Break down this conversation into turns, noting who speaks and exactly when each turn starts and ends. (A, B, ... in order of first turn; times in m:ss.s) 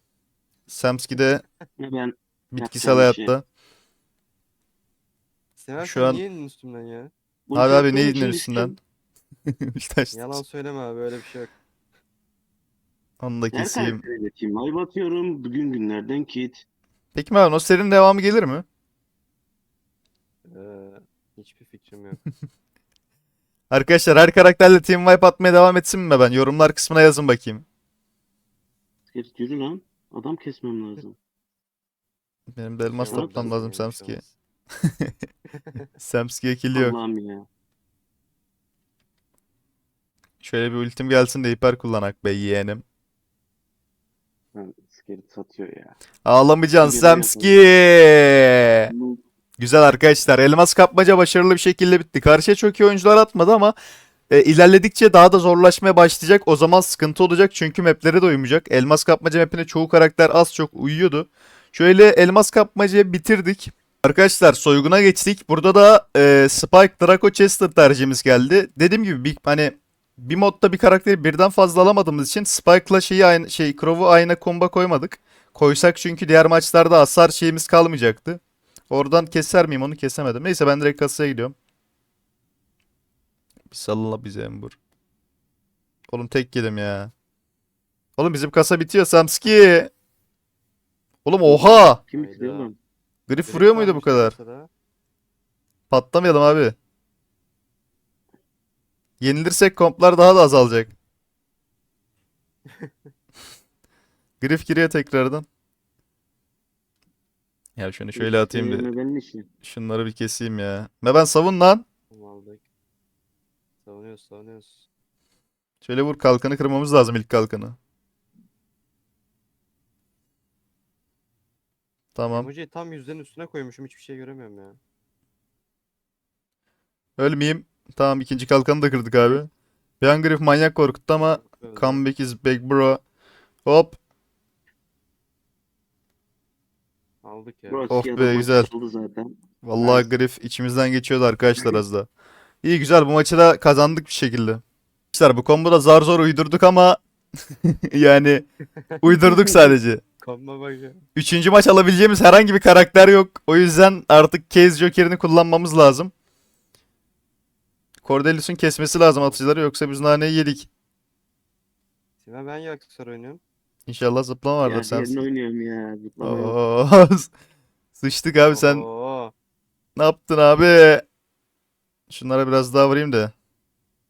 0:00.7-0:01.4 A
0:01.2-0:01.6 B
0:01.8-0:03.3 C
0:02.5-0:03.4 A
0:05.6-0:07.1 B
0:05.8-0:06.2 A
0:07.5-0:08.8 C
0:07.6-0:08.7 A
0:09.5-0:10.4 A
0:10.1-0:11.5 B
0:13.2-0:14.0 A
0:13.5-0:16.6 C
0:17.1-0:18.6 A
0:20.4-0:22.2 B
0:23.7-0:27.6 A
0:29.1-0:31.2 C
0:32.5-0:34.2 A
0:32.9-0:34.3 B
0:33.1-0:33.5 C
0:34.8-0:35.2 A
0:35.5-0:35.9 B
0:36.0-0:37.0 A
0:36.7-0:37.5 C
0:40.4-0:42.8 A
0:44.5-0:45.9 C
0:46.2-0:48.9 A
0:46.8-0:47.6 C
0:48.9-0:49.2 C
0:49.6-0:53.7 A
0:54.3-1:21.6 A
1:23.7-1:24.8 A
1:26.1-1:27.1 A
1:28.2-1:29.9 A
1:31.2-1:32.0 A
1:31.4-1:32.8 C
1:32.2-1:32.7 B
1:33.3-1:34.4 A
1:33.4-1:34.7 B
1:35.9-1:36.8 A
1:39.2-1:40.9 A
1:42.7-1:43.1 B
1:44.4-1:45.4 A
1:47.8-1:48.9 A
1:48.2-1:49.5 C
1:49.6-1:51.8 A
1:52.1-1:52.6 B
1:53.8-1:54.8 B
1:55.8-1:57.8 A
2:02.1-2:02.5 A
2:02.3-2:04.8 B
2:07.2-2:09.5 A
2:10.0-2:13.0 A
2:11.2-2:12.0 B
2:13.6-2:14.0 A
2:17.2-2:18.0 B
2:17.7-2:20.1 C
2:17.9-2:18.7 A
2:19.6-2:22.1 A
2:22.6-2:24.6 A
2:25.1-2:27.0 A
2:27.6-2:28.4 A
2:28.8-2:29.0 B
2:29.0-2:30.0 A
2:30.2-2:31.0 B
2:31.1-2:36.1 A
2:38.0-2:40.7 A
2:39.2-2:39.4 B
2:42.2-2:43.4 B
2:43.9-2:45.2 A
2:44.6-2:46.6 C
2:46.2-2:47.3 A
2:48.0-2:48.8 A
2:48.5-2:49.3 B
2:50.0-2:51.0 A
2:52.1-2:53.3 A